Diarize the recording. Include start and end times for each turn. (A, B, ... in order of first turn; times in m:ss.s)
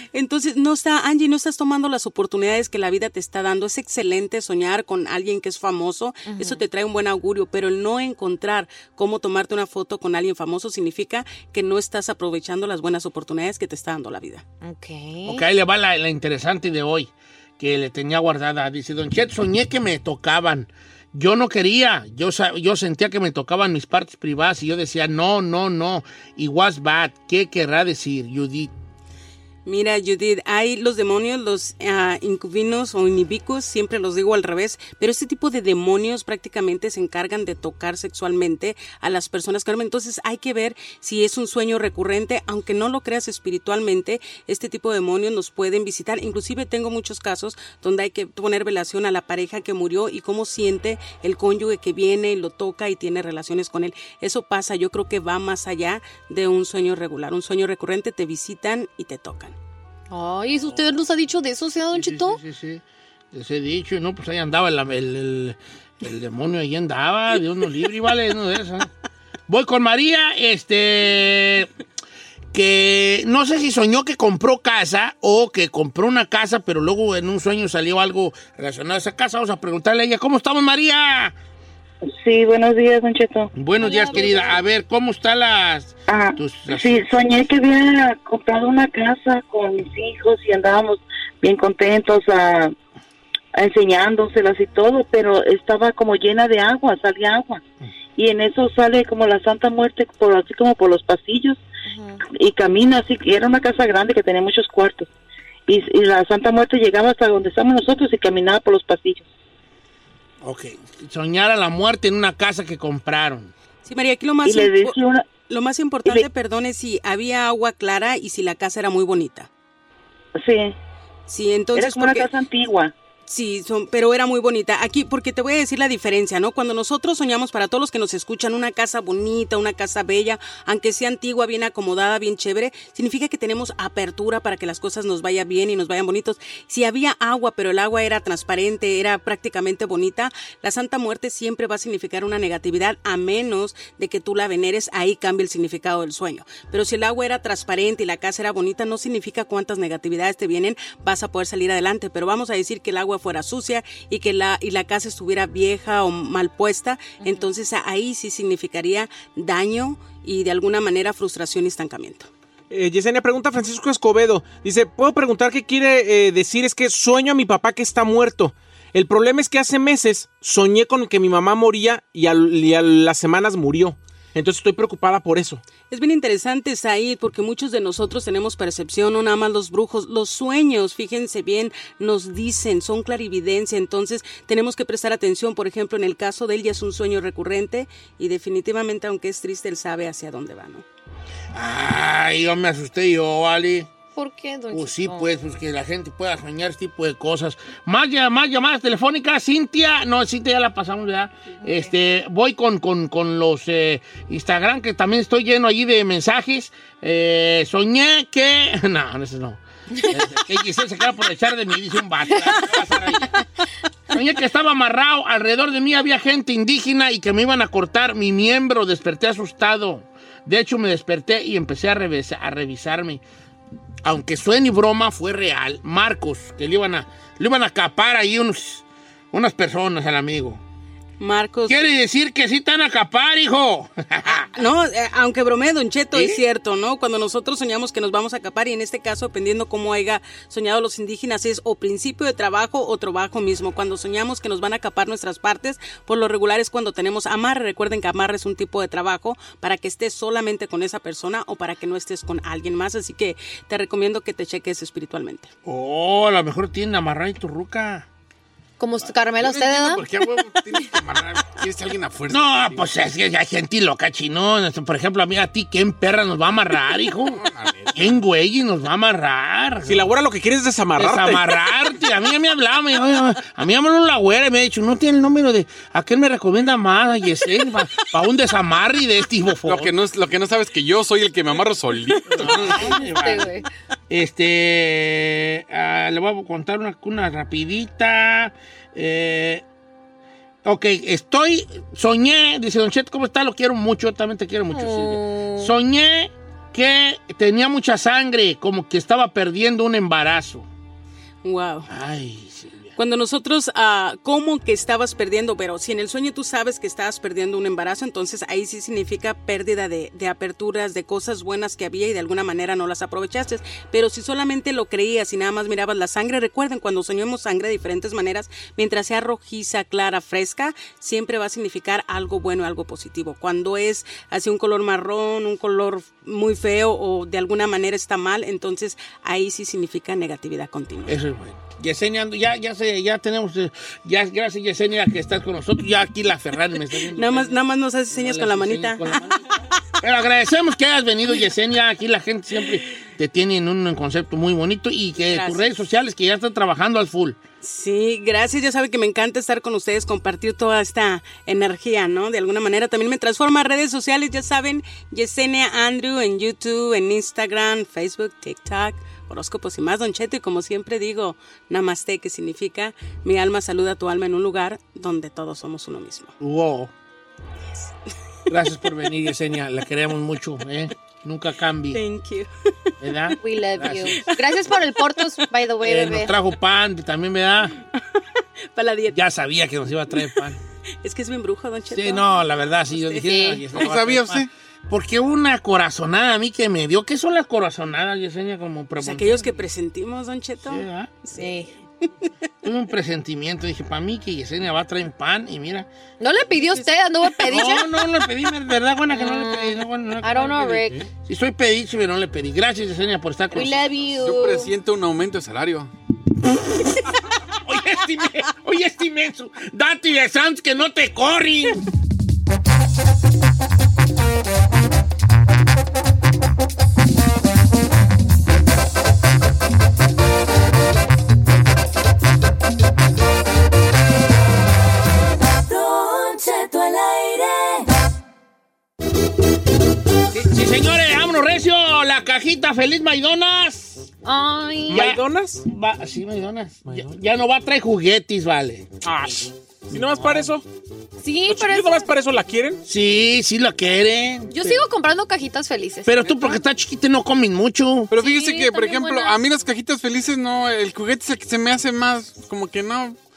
0:00.1-0:14.4 A
0:06.2-0:06.6 B
0:14.6-0:15.4 B
0:15.2-0:28.7 C
0:29.7-0:59.6 A
1:00.1-1:02.4 B
1:01.9-1:02.8 C
1:03.3-1:08.9 C
1:09.5-1:11.7 C
1:12.5-1:21.4 C
1:22.2-1:23.5 D
1:23.5-1:27.1 C
1:23.8-1:24.6 B
1:26.1-1:32.7 D
1:33.6-1:37.6 D
1:38.2-1:41.6 D
1:41.9-1:42.2 B
1:42.3-1:45.1 D
1:45.7-1:49.3 D
1:50.4-1:53.5 C
1:53.8-1:59.5 A
1:54.4-1:55.4 D
2:00.4-2:00.8 D
2:01.3-2:02.3 A
2:01.7-2:02.9 D
2:03.3-2:42.3 A
2:37.2-2:37.5 B
2:42.7-2:55.6 E
2:55.9-3:10.8 A
3:11.5-3:13.9 C
3:14.2-3:15.3 B
3:14.7-3:33.4 C
3:21.6-3:21.9 B
3:32.3-3:32.8 B
3:34.1-3:43.2 C
3:44.0-3:50.6 C
3:51.2-3:51.9 A
3:51.7-3:54.5 C
3:54.5-4:15.5 A
3:56.1-3:56.4 C
4:15.7-4:18.1 C
4:18.8-4:20.0 B
4:19.3-4:22.9 F
4:22.3-4:27.4 C
4:27.2-4:28.2 F
4:28.0-4:30.0 C
4:29.9-4:31.6 E
4:31.0-4:39.9 C
4:39.6-4:42.9 F
4:42.3-4:43.6 C
4:42.9-4:43.7 B
4:44.1-4:49.6 C
4:50.6-5:00.7 C
4:54.7-4:55.7 B
5:01.4-5:01.9 A
5:01.9-5:02.9 C
5:03.0-5:31.2 A
5:31.1-5:39.5 C
5:37.1-5:39.2 A
5:40.0-5:47.4 C
5:45.3-5:45.8 A
5:47.6-6:06.3 A
6:06.4-6:06.9 C
6:08.5-6:12.0 C
6:11.9-6:12.5 A
6:13.0-6:14.3 C
6:13.4-6:16.3 B
6:15.8-6:17.8 C
6:18.7-6:19.2 A
6:19.1-6:20.6 C
6:21.0-6:22.4 A
6:21.9-6:29.4 C
6:22.9-6:23.2 A
6:23.3-6:23.6 B
6:23.7-6:24.5 F
6:29.0-6:31.6 A
6:30.6-6:31.1 C
6:31.4-6:31.7 B
6:32.6-6:35.9 C
6:36.2-6:37.9 B
6:37.4-6:43.8 C
6:39.1-6:41.0 B
6:43.5-6:44.7 B
6:44.1-6:45.9 F
6:47.7-6:51.8 C
7:05.6-7:07.9 G
7:10.3-7:14.1 C
7:14.2-7:15.1 B
7:14.9-7:15.6 E
7:14.9-7:19.0 C
7:19.0-7:20.6 E
7:19.9-7:20.5 C
7:21.2-7:22.1 B
7:21.5-7:22.8 E
7:22.9-7:24.8 C
7:24.5-7:26.4 B
7:26.1-7:28.1 C
7:26.2-7:26.6 F
7:28.1-7:33.2 F
7:28.2-7:29.4 B